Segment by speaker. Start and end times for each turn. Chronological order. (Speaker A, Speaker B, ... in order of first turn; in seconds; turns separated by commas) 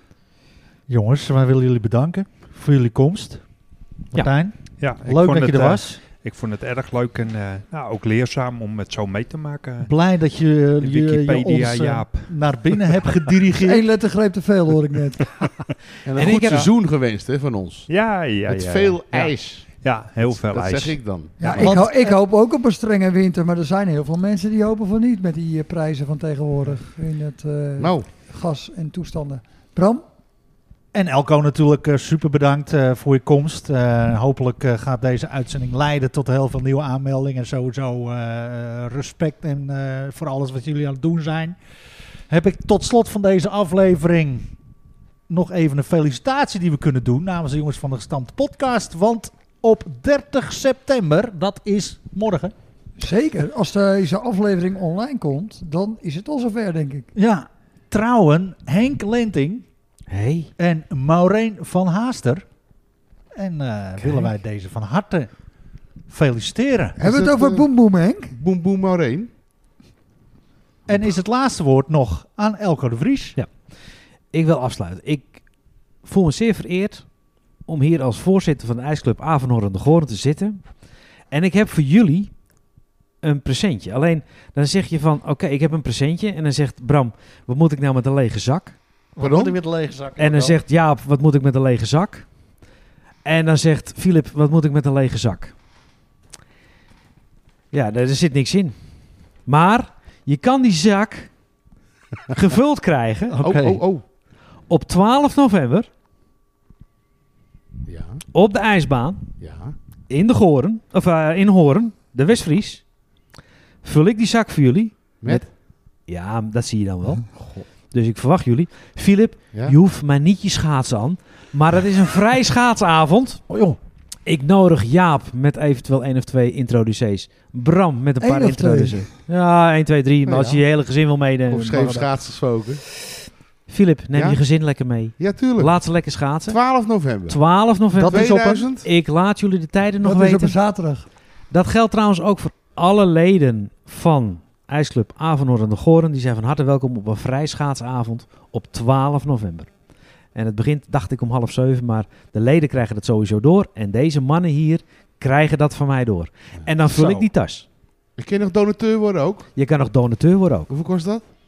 Speaker A: 0.9-3.4, Speaker A: 4.1-6.0, Speaker B: 4.8-9.9, Speaker A: 9.8-13.8, Speaker B: 10.8-13.2, Speaker C: 13.6-15.3, Speaker D: 16.0-17.9, Speaker E: 16.1-16.7, Speaker B: 17.9-21.6, Speaker D: 18.4-21.8, Speaker C: 21.4-30.0, Speaker A: 21.6-22.1, Speaker D: 27.8-28.1, Speaker A: 30.9-41.6, Speaker A: 42.3-44.5, Speaker A: 45.3-52.5, Speaker C: 53.0-57.1, Speaker A: 57.1-59.6, Speaker E: 60.1-60.5, Speaker A: 60.6-62.4, Speaker A: 63.3-65.3, Speaker E: 64.0-64.3, Speaker A: 66.1-67.0, Speaker C: 67.0-68.3, Speaker D: 67.0-67.7, Speaker D: 68.3-69.3, Speaker A: 70.9-73.4, Speaker E: 74.3-75.4, Speaker E: 76.0-77.0, Speaker E: 77.7-80.6, Speaker E: 81.3-82.3, Speaker E: 83.2-88.8, Speaker A: 89.2-90.6, Speaker D: 89.2-89.6, Speaker E: 90.2-92.2, Speaker E: 93.2-95.5, Speaker E: 97.7-98.7, Speaker E: 99.5-101.3, Speaker E: 102.3-103.8, Speaker D: 103.4-104.0, Speaker A: 103.4-103.8, Speaker E: 104.7-105.9, Speaker D: 107.9-108.2, Speaker E: 108.3-109.2, Speaker D: 109.4-109.8, Speaker E: 110.1-112.8, Speaker E: 113.8-115.5, Speaker E: 116.1-117.4, Speaker D: 117.3-117.7, Speaker E: 117.9-123.4, Speaker A: 123.5-123.8, Speaker E: 124.2-132.3, Speaker C: 128.2-129.0, Speaker D: 130.2-130.6, Speaker D: 131.5-132.8, Speaker E: 133.0-136.6, Speaker D: 134.1-134.4, Speaker D: 135.2-135.8, Speaker D: 136.5-137.4, Speaker E: 137.3-140.6, Speaker A: 137.9-138.6, Speaker D: 138.0-138.9, Speaker C: 140.0-141.1, Speaker E: 141.5-149.7, Speaker E: 150.3-157.7, Speaker A: 156.9-157.2, Speaker D: 158.2-159.5, Speaker E: 159.6-160.7, Speaker D: 160.7-161.2